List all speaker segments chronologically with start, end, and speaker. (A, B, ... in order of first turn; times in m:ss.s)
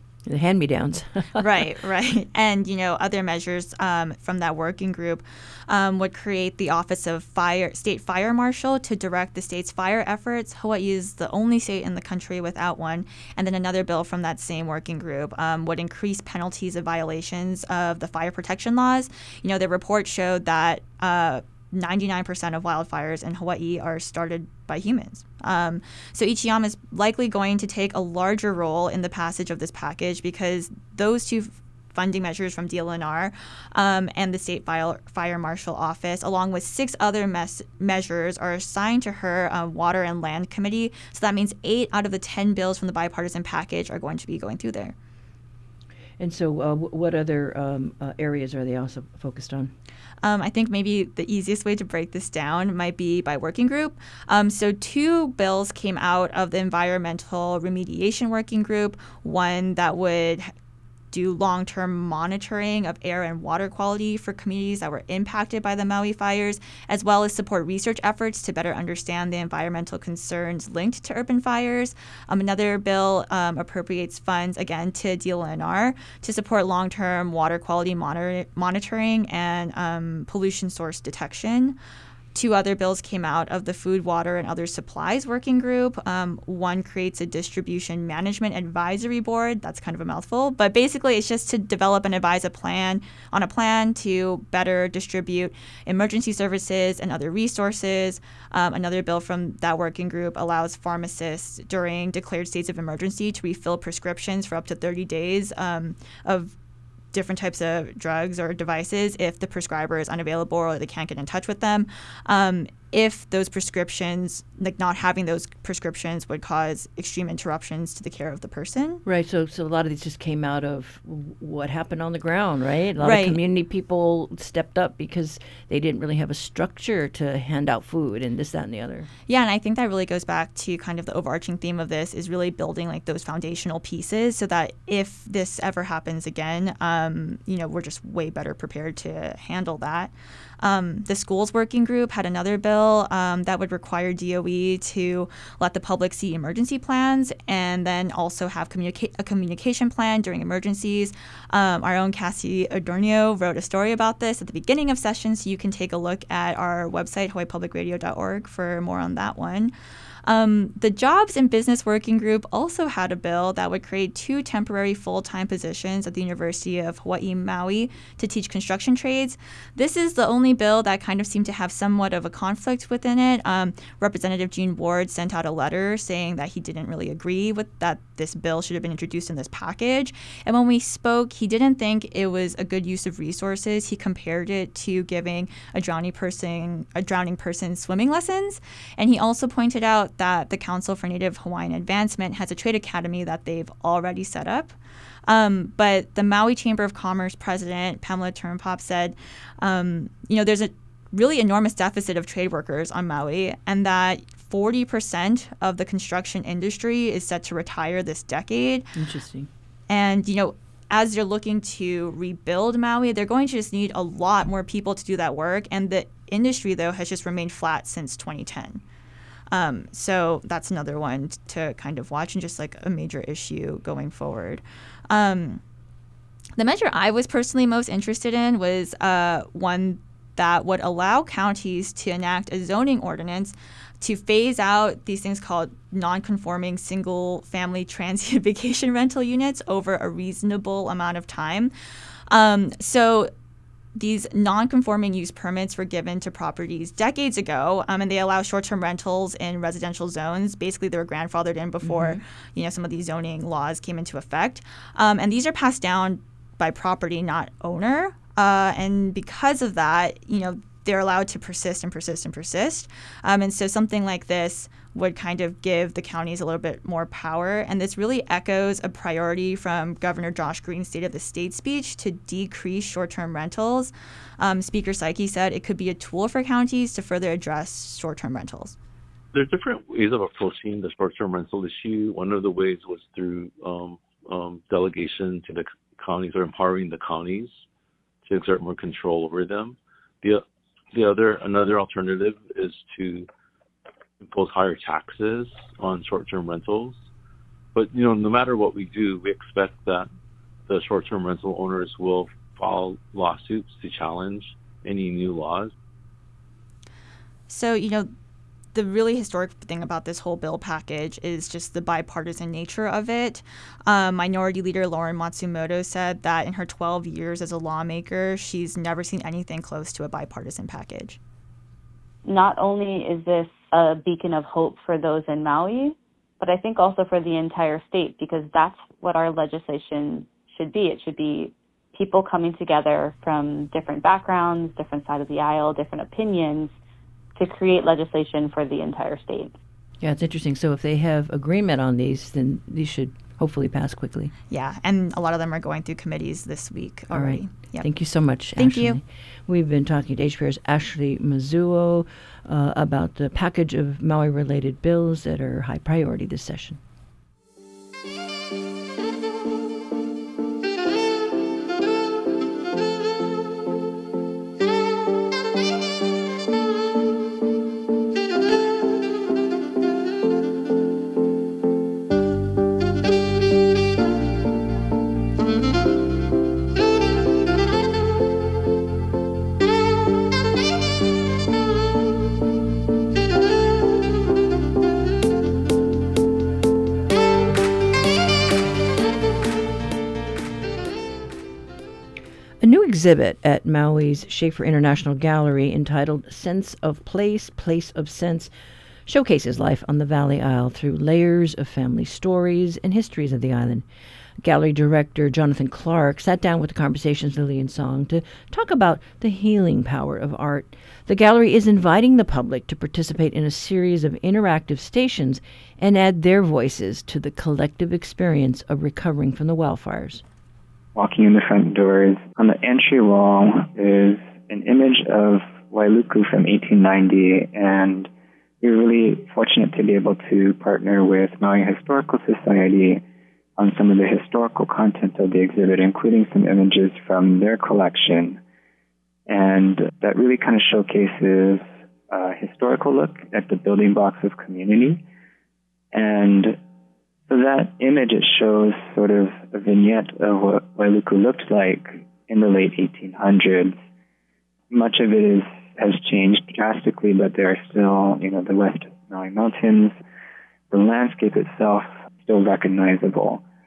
0:00.3-0:01.4 A
0:01.4-0:44.9 B
0:46.2-0:49.7 A
0:50.2-1:00.5 B
1:01.1-1:21.8 B
1:22.3-1:46.5 B
1:47.1-1:59.0 B
1:59.0-2:09.1 A
2:03.0-2:03.4 B
2:09.3-2:39.7 B
2:40.2-3:14.8 B
3:15.3-3:28.9 B
3:28.9-3:29.5 A
3:29.9-3:38.8 B
3:39.5-3:45.6 B
3:46.6-4:01.7 B
4:02.3-4:03.3 B
4:03.9-4:38.8 B
4:11.8-4:12.2 A
4:39.3-4:47.6 C
4:48.2-4:53.3 C
4:54.2-4:57.0 C
4:57.7-5:00.1 C
5:00.7-5:05.7 C
5:07.5-5:08.1 B
5:08.7-5:21.2 B
5:22.2-5:36.7 D
5:37.4-5:39.5 D
5:40.0-5:44.3 A
5:44.5-5:47.8 B
5:47.1-5:56.8 A
5:48.6-5:49.0 B
6:32.6-6:38.5 A
6:39.1-6:43.8 A
6:44.4-7:00.2 A
7:00.9-7:08.1 E
7:08.6-7:13.0 E
7:13.6-7:18.4 E
7:19.3-7:25.0 E
7:25.9-7:26.6 E
7:27.3-7:33.8 E
7:34.7-7:40.0 E
7:40.7-7:43.4 E